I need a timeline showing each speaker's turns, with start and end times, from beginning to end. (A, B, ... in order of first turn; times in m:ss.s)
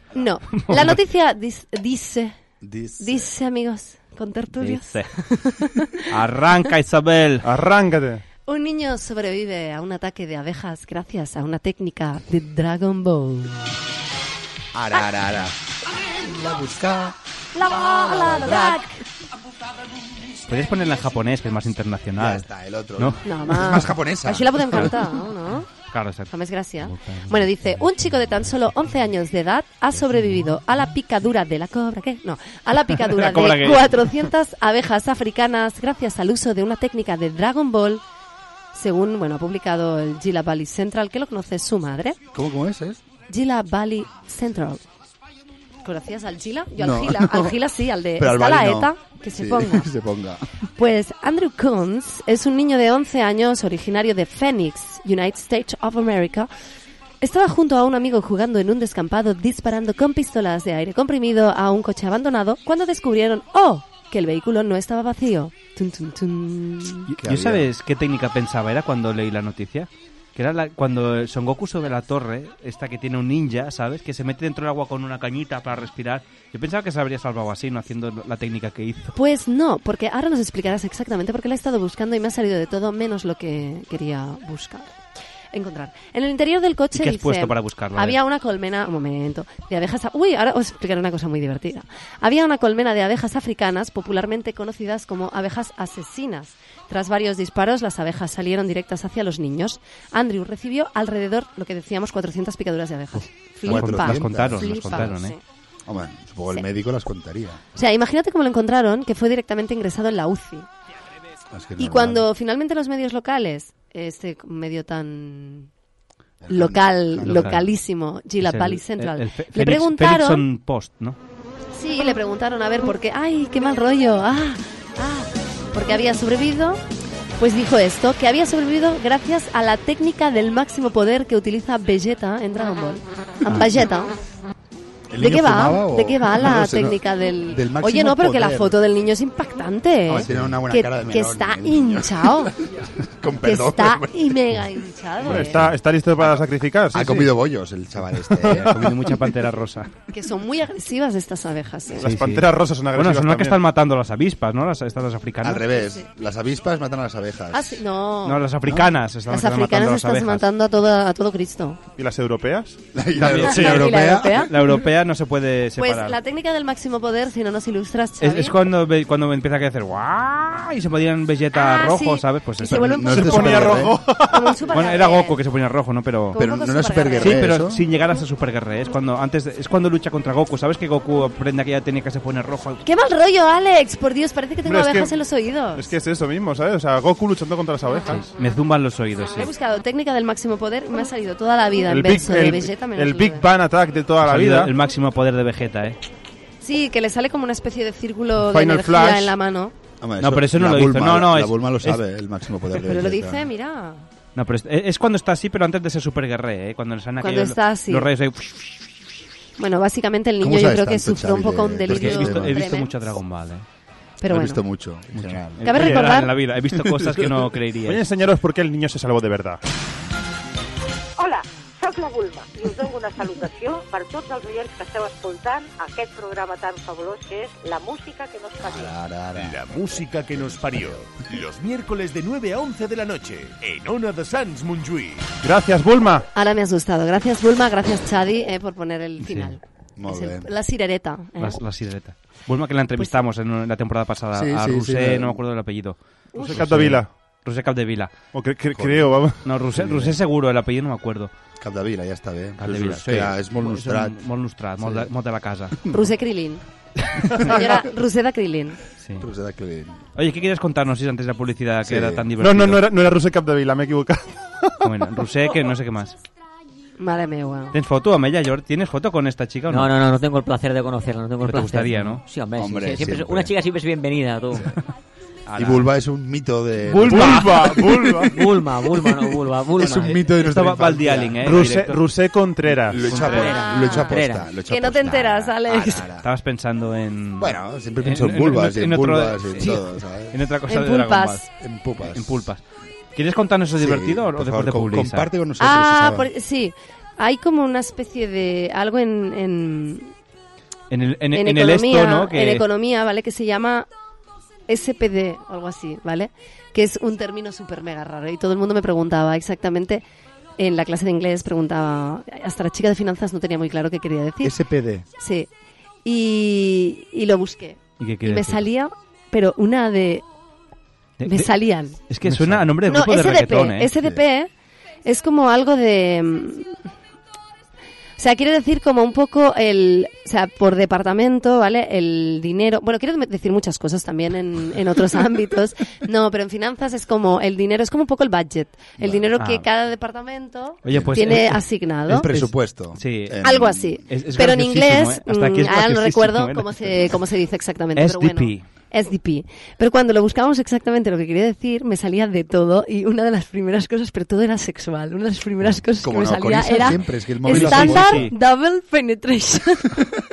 0:00.2-0:02.4 A
0:00.5-0:01.0 B
0:02.6-0:03.3 C
0:03.0-0:06.0 A
0:04.6-0:05.1 B
0:06.1-0:07.5 B
0:07.4-0:08.2 D
0:08.5-0:13.7 A
0:14.7-0:15.5 C
0:16.2-0:17.2 C
0:17.6-0:19.0 A
0:17.7-0:18.8 C
0:20.5-0:22.5 B
0:22.2-0:24.6 C
0:23.0-0:23.2 B
0:23.2-0:25.7 A
0:25.9-0:26.3 B
0:26.3-0:38.0 A
0:27.0-0:27.3 B
0:33.1-0:33.9 B
0:38.7-0:42.2 A
0:42.3-0:43.0 C
0:43.3-0:44.8 A
0:45.8-0:49.8 A
0:46.8-0:47.6 C
0:48.2-0:50.4 C
0:50.8-0:56.5 A
0:57.2-1:07.1 A
1:07.1-1:19.2 B
1:07.2-1:07.7 C
1:19.2-1:24.9 A
1:25.5-1:45.4 A
1:26.9-1:28.2 B
1:43.6-1:45.1 C
1:43.7-1:45.4 B
1:45.9-1:47.6 C
1:47.8-1:50.7 A
1:51.5-1:52.3 C
1:51.8-1:55.7 A
1:56.4-1:57.7 C
1:56.5-2:00.4 A
1:57.2-1:57.6 B
1:58.4-2:01.2 B
2:01.7-2:06.8 A
2:07.4-2:14.2 A
2:15.1-2:18.8 C
2:15.2-2:22.5 A
2:20.1-2:24.4 C
2:20.2-2:20.5 B
2:23.4-2:25.6 A
2:25.3-2:25.5 C
2:25.3-2:27.3 D
2:26.9-2:29.1 C
2:28.4-2:29.9 B
2:30.1-2:32.1 A
2:32.0-2:33.6 D
2:32.0-2:35.6 B
2:35.4-2:37.8 C
2:37.5-2:38.4 A
2:38.2-2:40.5 B
2:38.6-2:38.9 C
2:39.3-2:41.8 A
2:42.0-2:43.8 D
2:42.9-2:44.5 C
2:43.2-2:43.7 B
2:43.5-2:44.5 A
2:44.5-2:46.2 B
2:45.8-2:48.6 A
2:48.2-2:53.8 B
2:51.5-2:55.4 A
2:52.7-2:53.9 C
2:53.3-2:54.4 D
2:54.7-2:56.4 B
2:56.3-2:57.5 A
2:56.4-2:57.8 C
2:57.2-3:02.8 B
3:02.8-3:05.9 A
3:04.6-3:05.2 D
3:05.8-3:08.2 D
3:08.1-3:09.5 B
3:09.4-3:13.4 A
3:11.9-3:14.7 D
3:14.2-3:16.0 B
3:16.6-3:19.8 A
3:18.4-3:19.4 D
3:20.0-3:23.5 C
3:20.2-3:22.0 B
3:22.8-3:24.1 A
3:24.4-3:28.6 B
3:27.2-3:28.1 A
3:29.6-3:33.2 A
3:30.4-3:32.6 C
3:31.9-3:33.6 B
3:34.2-3:34.6 A
3:34.3-3:35.9 C
3:35.1-3:38.0 B
3:35.6-3:36.3 A
3:36.8-3:37.3 C
3:37.9-3:39.6 D
3:41.2-3:48.9 E
3:48.6-3:51.1 C
3:49.4-3:55.3 F
3:55.4-3:56.3 D
3:56.4-4:01.6 A
3:59.2-3:59.5 B
4:00.0-4:00.5 C
4:01.4-4:08.1 B
4:04.3-4:05.4 C
4:06.4-4:06.6 A
4:06.4-4:07.1 D
4:08.3-4:09.4 D
4:08.8-4:09.2 C
4:09.4-4:11.3 B
4:09.7-4:10.2 C
4:11.6-4:14.2 C
4:12.6-4:15.8 B
4:14.8-4:15.1 C
4:15.8-4:16.1 C
4:15.9-4:16.6 A
4:17.1-4:17.4 B
4:17.4-4:18.8 A
4:19.0-4:19.3 B
4:19.2-4:20.0 C
4:20.2-4:22.8 B
4:21.8-4:22.3 C
4:22.4-4:24.9 D
4:24.8-4:26.2 B
4:27.0-4:27.8 A
4:27.7-4:29.9 B
4:29.7-4:34.7 G
4:31.4-4:32.2 B
4:32.6-4:33.5 C
4:35.5-4:35.9 B
4:35.6-4:37.9 C
4:37.0-4:37.7 B
4:37.0-4:38.4 D
4:38.3-4:40.3 G
4:39.7-4:41.6 C
4:40.4-4:42.0 B
4:41.4-4:43.1 D
4:42.9-4:46.3 C
4:43.0-4:43.6 B
4:43.2-4:44.5 G
4:43.4-4:46.1 A
4:45.8-4:51.5 B
4:47.4-4:50.4 C
4:50.7-4:51.5 A
4:51.6-4:52.4 C
4:52.1-4:52.6 B
4:53.2-4:55.3 B
4:53.8-4:56.3 C
4:55.6-5:00.1 A
5:00.9-5:02.6 B
5:01.3-5:03.9 A
5:04.7-5:10.0 A
5:10.6-5:14.6 A
5:14.4-5:15.1 C
5:15.2-5:15.5 A
5:16.0-5:20.2 A
5:18.0-5:18.6 B
5:21.2-5:23.9 B
5:21.2-5:22.0 A
5:22.8-5:24.5 A
5:25.0-5:26.8 A
5:28.2-5:42.3 A
5:39.0-5:39.3 C
5:39.4-5:39.6 B
5:40.8-5:41.6 B
5:40.9-5:41.5 C
5:42.1-5:44.0 C
5:42.3-5:47.1 B
5:43.4-6:00.0 A
5:48.0-5:48.7 B
5:56.0-5:58.3 C
5:57.5-5:58.3 B